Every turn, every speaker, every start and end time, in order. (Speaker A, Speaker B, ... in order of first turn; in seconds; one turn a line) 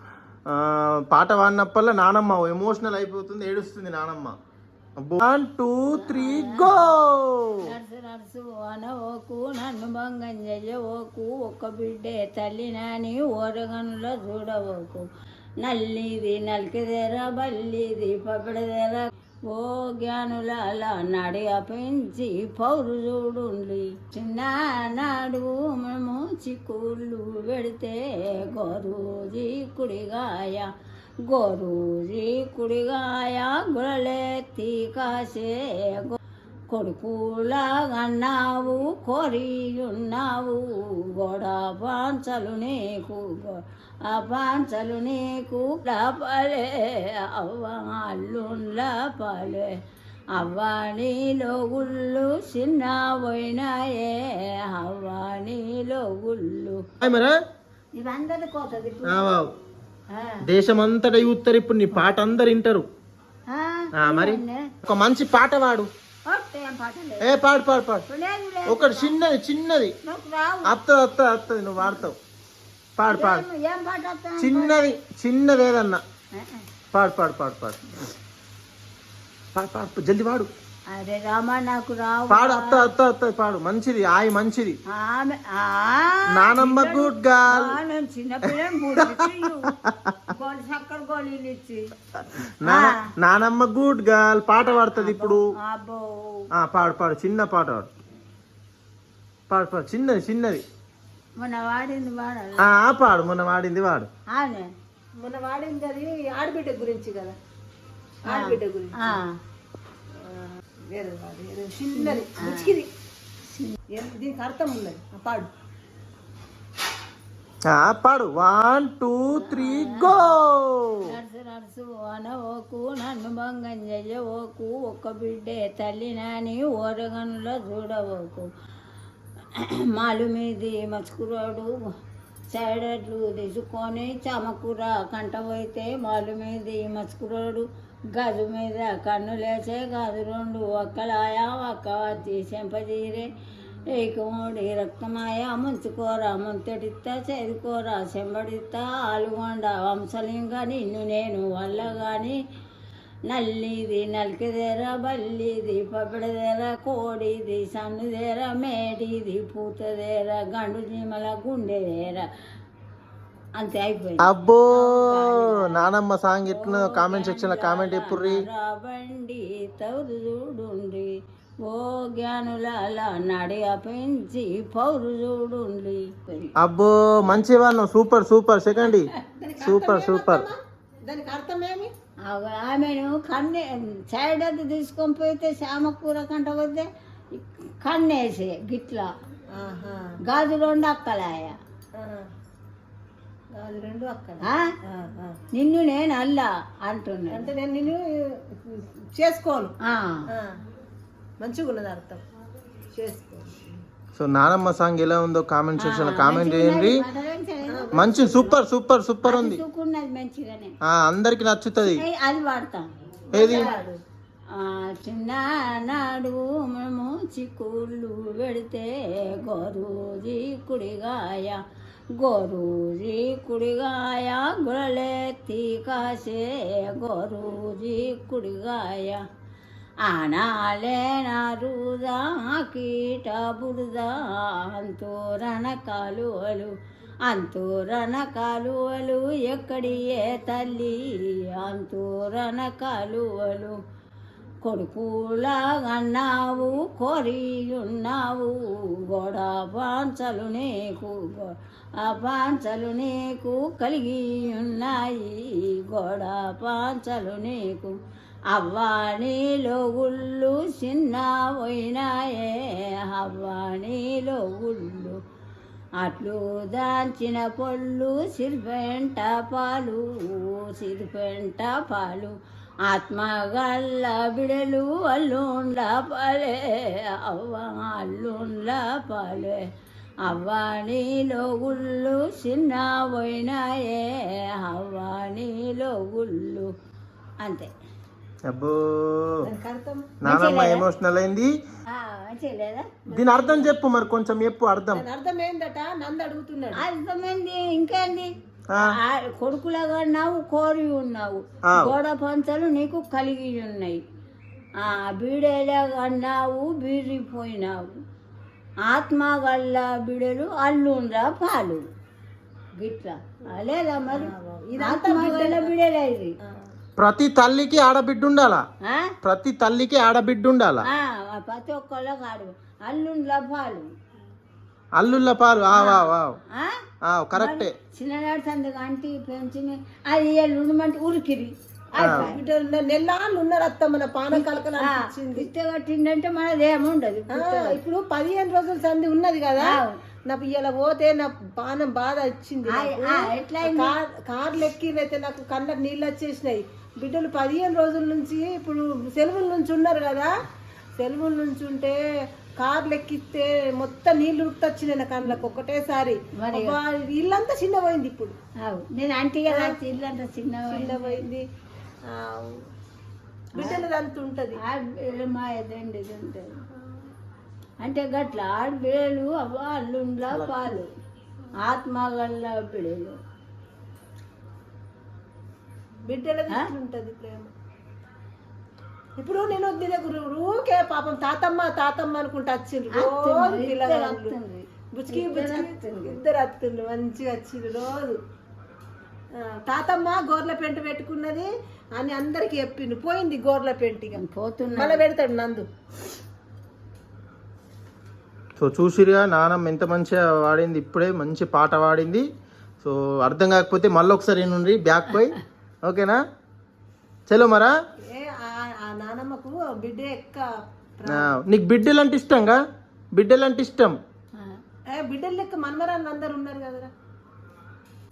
Speaker A: 0.5-4.4
Speaker A: 5.0-7.6
Speaker B: 5.9-6.8
Speaker B: 7.7-15.1
Speaker B: 15.6-30.7
Speaker B: 31.3-36.2
Speaker B: 36.7-49.7
Speaker B: 50.4-56.8
Speaker A: 57.0-57.4
Speaker B: 58.0-59.3
Speaker A: 59.1-59.5
Speaker B: 60.1-60.4
Speaker A: 60.5-62.9
Speaker B: 63.5-64.7
Speaker A: 64.0-65.9
Speaker B: 66.3-67.4
Speaker A: 67.2-68.0
Speaker B: 68.1-69.2
Speaker A: 68.7-70.0
Speaker B: 70.0-70.7
Speaker A: 70.7-72.2
Speaker A: 73.0-73.5
Speaker B: 73.1-74.8
Speaker A: 74.4-76.0
Speaker B: 76.4-76.6
Speaker A: 76.9-77.8
Speaker A: 79.5-80.5
Speaker B: 80.9-82.9
Speaker A: 82.3-84.8
Speaker B: 84.9-89.8
Speaker A: 86.3-87.8
Speaker A: 89.0-89.3
Speaker B: 90.3-91.8
Speaker A: 92.6-95.4
Speaker B: 92.6-93.1
Speaker B: 94.9-96.5
Speaker A: 96.5-97.9
Speaker A: 99.5-100.6
Speaker B: 101.4-102.7
Speaker A: 102.6-104.1
Speaker B: 104.3-104.7
Speaker C: 105.2-107.4
Speaker C: 108.2-109.2
Speaker B: 108.3-109.3
Speaker C: 110.2-112.9
Speaker B: 112.0-112.8
Speaker B: 113.5-113.8
Speaker C: 113.9-115.5
Speaker A: 117.7-121.1
Speaker B: 119.3-120.2
Speaker B: 121.1-128.5
Speaker B: 129.6-131.8
Speaker B: 132.5-143.3
Speaker B: 144.0-152.4
Speaker B: 153.3-162.3
Speaker B: 163.6-165.9
Speaker A: 164.2-168.4
Speaker B: 166.5-171.1
Speaker B: 171.7-176.5
Speaker A: 176.6-180.5
Speaker C: 179.4-181.9
Speaker B: 182.3-189.1
Speaker C: 189.5-190.1
Speaker B: 190.3-191.6
Speaker C: 192.0-192.3
Speaker C: 193.6-195.4
Speaker B: 194.4-194.7
Speaker B: 195.5-197.5
Speaker C: 197.3-199.8
Speaker B: 199.8-200.3
Speaker C: 201.4-202.2
Speaker C: 202.9-203.7
Speaker A: 204.2-207.0
Speaker B: 205.8-208.5
Speaker C: 207.7-208.5
Speaker A: 207.9-209.6
Speaker B: 209.2-210.8
Speaker A: 210.9-212.0
Speaker B: 211.8-213.8
Speaker C: 213.3-214.0
Speaker A: 213.3-213.7
Speaker B: 214.5-221.6
Speaker B: 222.2-229.2
Speaker B: 230.0-236.7
Speaker B: 237.3-243.8
Speaker B: 244.6-248.6
Speaker B: 249.1-258.0
Speaker B: 258.5-265.2
Speaker B: 266.0-272.3
Speaker B: 272.9-279.6
Speaker B: 280.2-286.7
Speaker B: 287.4-287.7
Speaker A: 288.5-289.5
Speaker C: 289.4-290.1
Speaker A: 290.2-291.5
Speaker B: 290.3-290.9
Speaker B: 291.9-292.9
Speaker C: 293.1-293.7
Speaker A: 293.1-295.0
Speaker C: 294.9-296.8
Speaker B: 296.8-298.3
Speaker B: 298.8-304.0
Speaker A: 301.7-301.9
Speaker B: 304.8-307.9
Speaker B: 308.9-311.8
Speaker B: 312.8-316.3
Speaker C: 314.1-315.7
Speaker C: 316.4-316.7
Speaker A: 317.0-318.6
Speaker B: 318.8-319.1
Speaker A: 319.2-320.9
Speaker B: 320.9-323.9
Speaker A: 325.0-326.4
Speaker B: 325.8-326.8
Speaker A: 327.0-327.7
Speaker B: 327.4-332.4
Speaker C: 331.9-335.5
Speaker A: 332.0-332.3
Speaker B: 334.3-337.8
Speaker C: 337.3-350.3
Speaker B: 339.6-340.0
Speaker B: 342.7-343.9
Speaker C: 351.0-352.0
Speaker C: 352.6-358.4
Speaker B: 356.4-356.8
Speaker B: 358.6-361.2
Speaker C: 359.5-359.8
Speaker C: 360.7-361.4
Speaker C: 362.1-362.6
Speaker C: 363.6-364.6
Speaker B: 363.6-363.8
Speaker B: 364.6-366.5
Speaker B: 367.8-370.9
Speaker B: 371.6-373.2
Speaker C: 376.1-377.5
Speaker C: 379.2-384.4
Speaker B: 382.9-386.2
Speaker C: 384.9-388.2
Speaker C: 389.4-394.2
Speaker B: 394.2-395.0
Speaker C: 394.8-395.7
Speaker A: 398.6-402.2
Speaker A: 402.8-406.2
Speaker A: 407.3-407.7
Speaker C: 408.1-411.4
Speaker A: 411.1-412.6
Speaker A: 413.1-414.0
Speaker C: 414.9-416.9